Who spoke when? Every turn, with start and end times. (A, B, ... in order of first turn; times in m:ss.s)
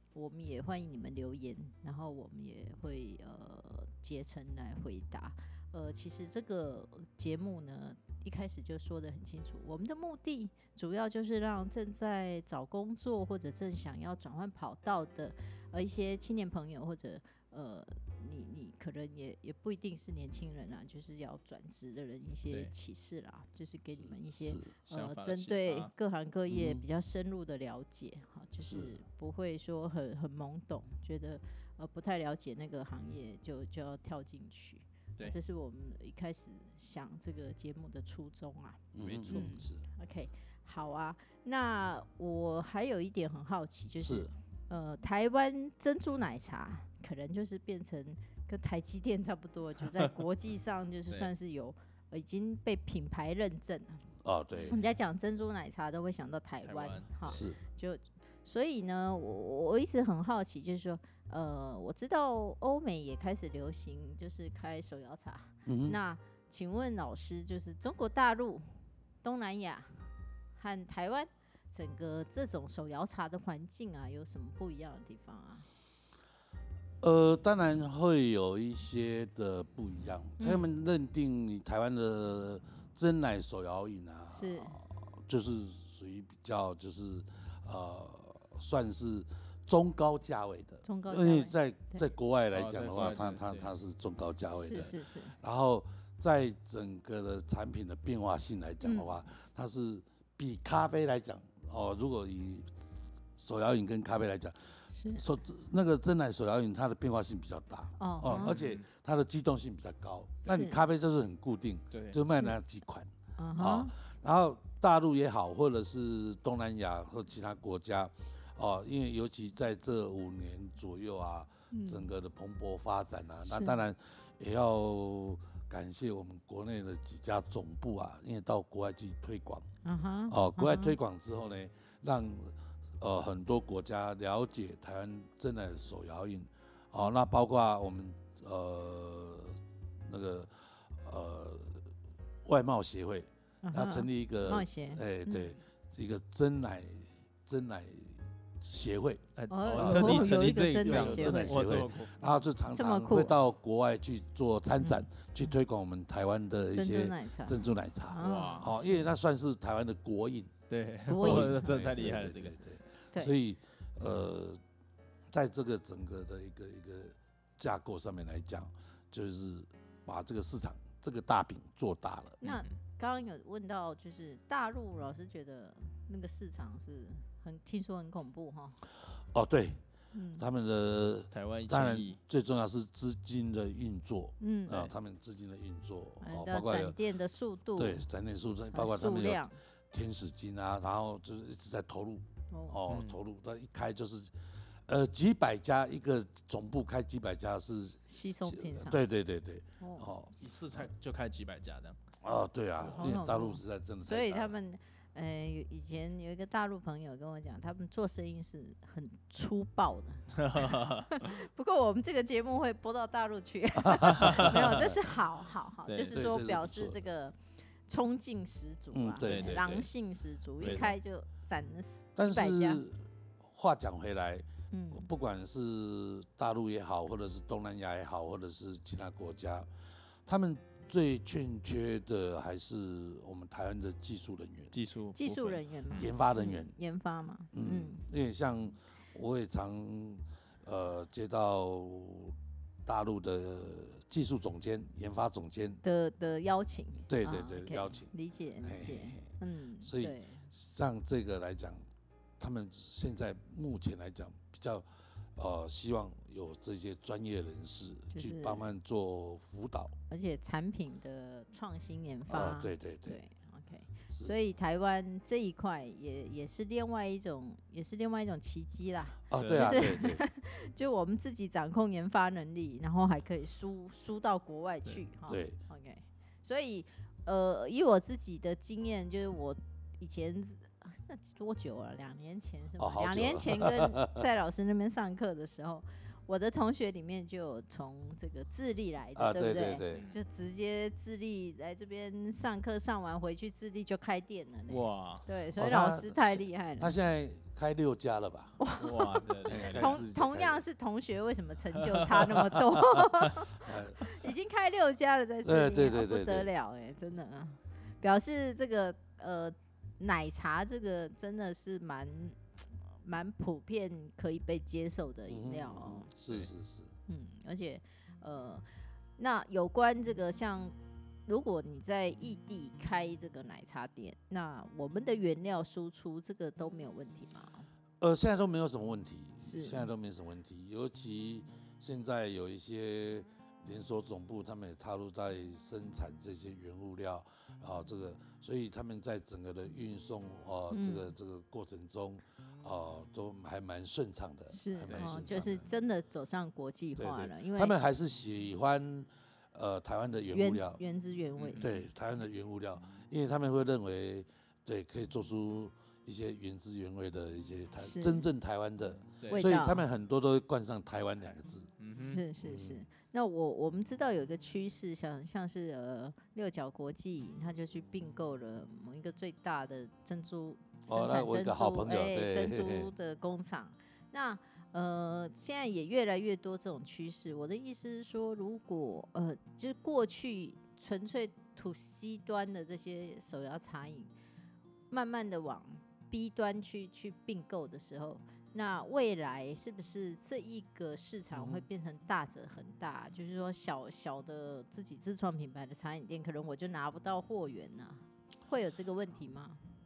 0:00.2-0:54.1 A
0:24.0-0:24.7 B
0:24.9-0:25.9 C
0:26.5-0:26.8 B
0:28.6-0:28.9 B
0:38.9-0:39.9 B
0:39.0-0:39.6 C
0:44.0-0:44.3 B
0:54.2-0:54.8 B
0:54.6-1:15.7 A
0:56.6-0:57.4 C
0:57.3-0:57.6 B
1:05.7-1:06.0 B
1:17.0-1:42.7 B
1:20.4-1:20.7 A
1:24.3-1:24.8 A
1:30.8-1:32.0 A
1:32.5-1:33.7 C
1:34.6-1:35.4 A
1:38.8-1:39.1 A
1:43.4-2:09.7 B
1:44.9-1:45.2 A
1:48.0-1:48.6 A
1:48.3-1:48.8 C
1:50.5-1:50.8 A
1:51.9-1:52.2 C
1:52.3-1:52.6 A
1:53.4-1:53.9 A
2:01.7-2:02.1 A
2:03.5-2:03.8 A
2:09.8-2:11.0 A
2:10.3-2:21.8 B
2:22.4-2:40.5 B
2:23.6-2:25.6 A
2:29.4-2:32.1 C
2:29.5-2:31.8 A
2:32.8-2:33.4 A
2:34.8-2:35.1 A
2:36.7-2:39.1 A
2:38.2-2:38.7 C
2:40.7-2:42.7 C
2:41.1-2:42.4 A
2:41.2-2:44.6 B
2:45.3-2:52.4 B
2:52.4-2:58.8 A
2:52.4-2:52.7 C
2:59.3-2:59.8 B
3:00.1-3:00.4 A
3:00.4-3:07.0 B
3:01.3-3:02.2 C
3:04.4-3:04.9 A
3:06.2-3:08.0 A
3:07.8-3:14.3 B
3:08.7-3:09.6 A
3:12.5-3:12.8 A
3:12.9-3:13.2 C
3:14.9-3:20.9 B
3:18.1-3:19.0 A
3:19.8-3:20.1 A
3:20.4-3:22.0 C
3:22.2-3:24.6 B
3:22.8-3:42.8 A
3:30.4-3:31.2 C
3:33.8-3:34.8 B
3:34.2-3:34.6 C
3:35.9-3:36.2 C
3:36.1-3:37.0 B
3:38.9-3:39.9 B
3:39.2-3:39.6 C
3:40.6-3:41.0 B
3:40.6-3:40.9 C
3:42.2-3:49.7 B
3:44.7-3:45.1 A
3:50.3-3:54.8 B
3:54.7-3:56.1 C
3:55.2-3:58.0 A
3:56.0-3:56.8 B
3:57.5-4:05.8 B
4:05.8-4:10.5 A
4:07.1-4:08.1 B
4:08.6-4:11.8 B
4:12.4-4:20.0 B
4:18.1-4:18.7 A
4:20.1-4:57.0 A
4:22.3-4:23.2 B
4:29.3-4:30.2 B
4:29.4-4:29.9 C
4:35.3-4:35.6 B
4:42.8-4:44.2 B
4:49.2-4:50.1 B
4:54.7-4:55.2 C
4:55.6-4:58.6 B
4:58.6-5:16.1 A
4:58.8-5:00.0 C
4:59.4-5:00.6 B
5:02.4-5:04.1 B
5:05.4-5:06.5 B
5:15.3-5:16.9 B
5:17.1-5:18.7 A
5:19.2-5:20.7 A
5:21.3-5:27.7 A
5:28.0-5:45.6 B
5:29.4-5:29.9 A
5:40.7-5:41.1 A
5:44.5-5:47.8 A
5:47.0-5:50.8 B
5:50.3-5:51.7 A
5:51.4-5:51.9 C
5:51.6-6:01.7 B
5:57.8-5:58.3 A
5:59.2-5:59.5 C
5:59.3-5:59.9 A
6:01.8-6:02.2 C
6:02.0-6:24.1 A
6:02.4-6:02.8 B
6:10.9-6:12.9 B
6:24.9-6:39.6 A
6:31.3-6:31.6 B